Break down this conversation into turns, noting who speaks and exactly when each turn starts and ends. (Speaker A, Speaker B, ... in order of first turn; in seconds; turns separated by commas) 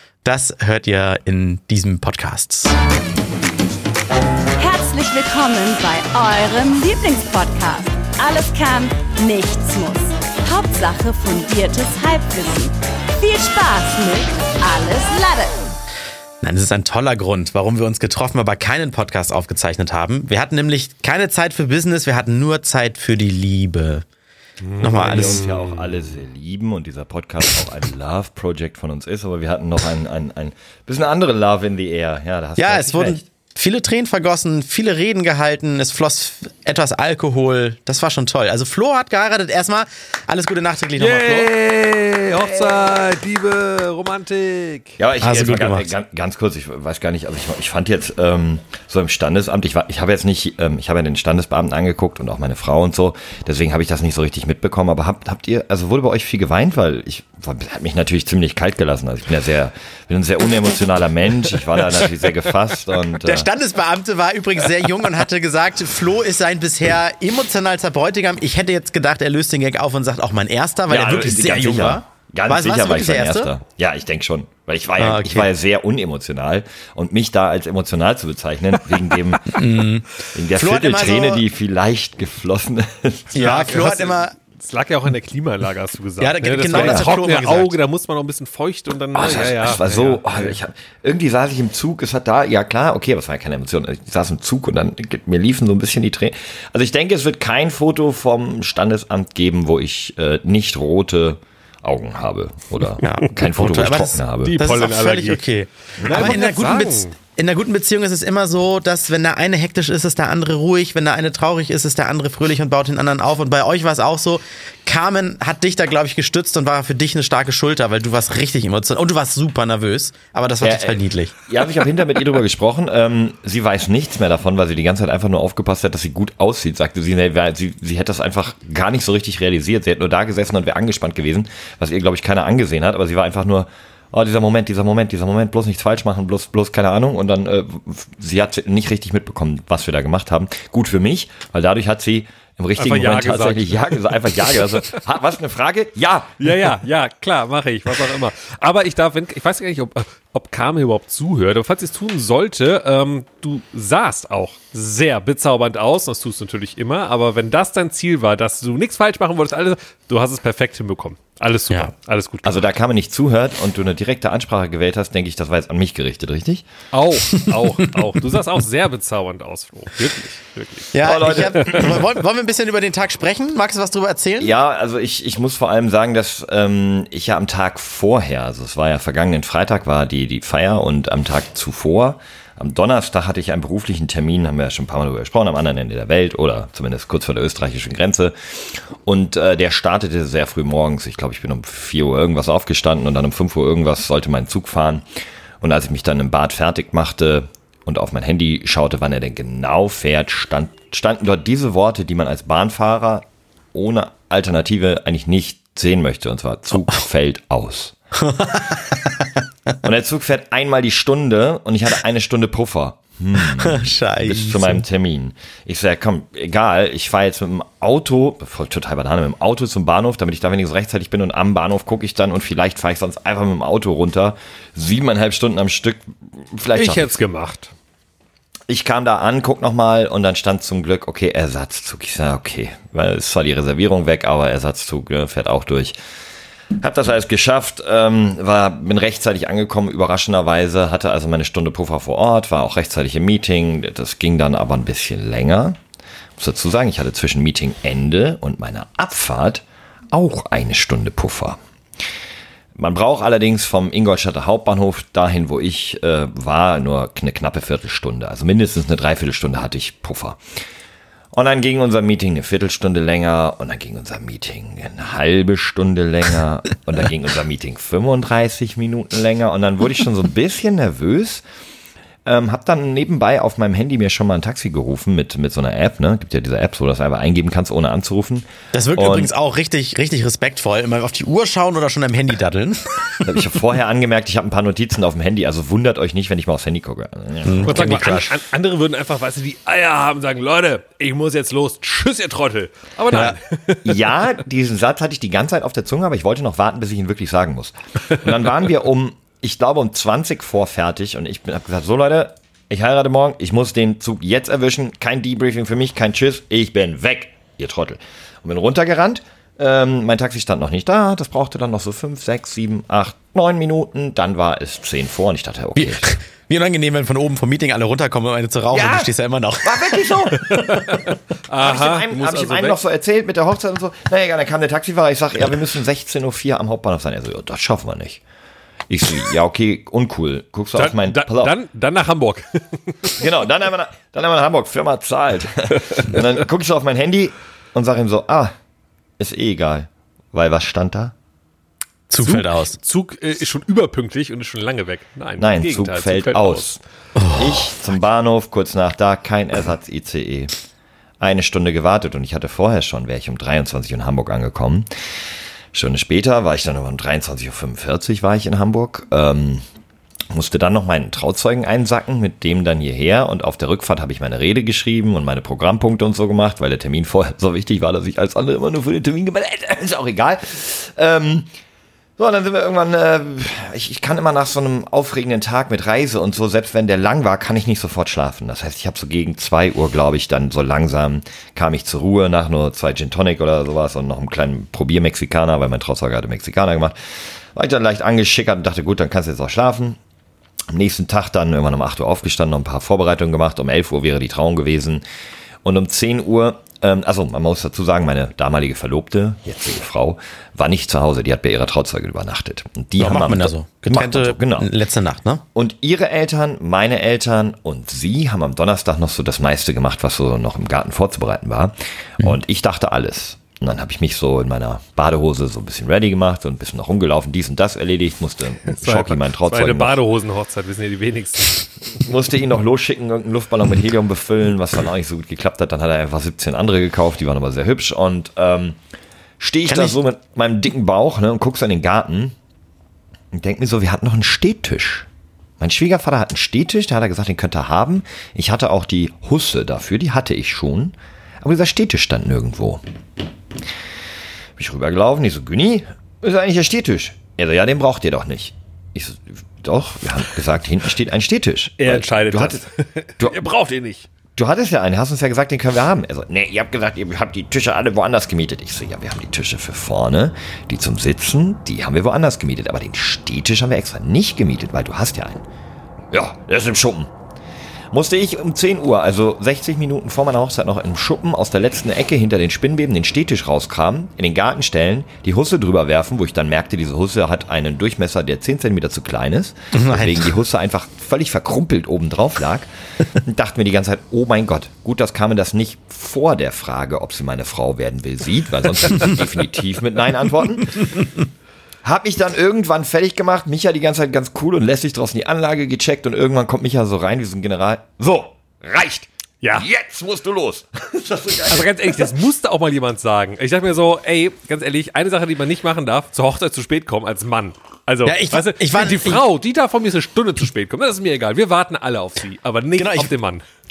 Speaker A: 0.2-2.8, Speaker B: 4.6-15.6, Speaker A: 16.4-24.1, Speaker C: 24.7-25.6, Speaker A: 24.8-25.4, Speaker D: 24.8-33.2, Speaker A: 32.6-41.5, Speaker C: 41.0-45.0, Speaker D: 42.4-42.7, Speaker D: 45.0-63.5, Speaker A: 45.2-45.9, Speaker A: 63.2-73.5, Speaker D: 70.9-79.5, Speaker A: 75.0-75.5, Speaker A: 79.5-81.4, Speaker D: 80.3-83.6, Speaker A: 83.3-84.3, Speaker C: 83.3-90.5, Speaker A: 86.2-87.8, Speaker D: 86.7-87.1, Speaker D: 89.1-104.6, Speaker A: 103.0-121.3, Speaker C: 104.4-105.4, Speaker C: 106.0-107.1, Speaker D: 106.0-106.3, Speaker D: 120.6-146.7, Speaker C: 142.8-145.0, Speaker C: 146.4-162.7, Speaker D: 162.4-166.7, Speaker C: 166.9-172.0, Speaker A: 170.9-174.5, Speaker D: 171.0-172.0, Speaker D: 174.4-195.0, Speaker D: 195.6-207.9, Speaker A: 208.2-209.3, Speaker D: 209.8-227.1, Speaker A: 213.4-214.8, Speaker C: 226.7-227.7, Speaker D: 228.7-236.0, Speaker D: 236.7-245.8, Speaker D: 246.4-251.6, Speaker D: 252.8-260.4, Speaker D: 261.3-271.4, Speaker D: 272.2-279.3, Speaker A: 278.7-283.2, Speaker D: 283.2-288.3, Speaker A: 287.4-288.3, Speaker C: 287.6-294.0, Speaker A: 293.1-293.4, Speaker D: 293.9-316.2, Speaker A: 315.8-319.8, Speaker D: 318.7-319.1, Speaker D: 319.6-320.9, Speaker C: 320.5-322.8, Speaker D: 321.6-328.2, Speaker D: 328.9-331.6, Speaker C: 330.8-333.2, Speaker D: 333.2-338.5, Speaker D: 339.2-341.1, Speaker A: 342.1-342.8, Speaker C: 342.2-346.8, Speaker D: 345.4-346.8, Speaker A: 347.2-347.6, Speaker D: 347.3-350.5, Speaker D: 351.2-354.9, Speaker D: 355.7-359.6, Speaker D: 360.3-371.5, Speaker D: 372.2-390.0, Speaker D: 390.7-395.0, Speaker D: 395.6-404.7, Speaker A: 403.0-405.4, Speaker D: 405.6-420.0, Speaker C: 418.6-422.0, Speaker D: 421.9-428.8, Speaker D: 429.4-432.4, Speaker D: 433.3-435.1, Speaker D: 435.6-442.8, Speaker D: 444.6-452.6, Speaker C: 451.8-454.1, Speaker D: 454.4-465.4, Speaker D: 466.1-467.1, Speaker D: 467.9-491.1, Speaker A: 479.7-480.3, Speaker D: 491.8-502.1, Speaker C: 501.5-513.4, Speaker A: 508.0-509.2, Speaker A: 512.8-513.1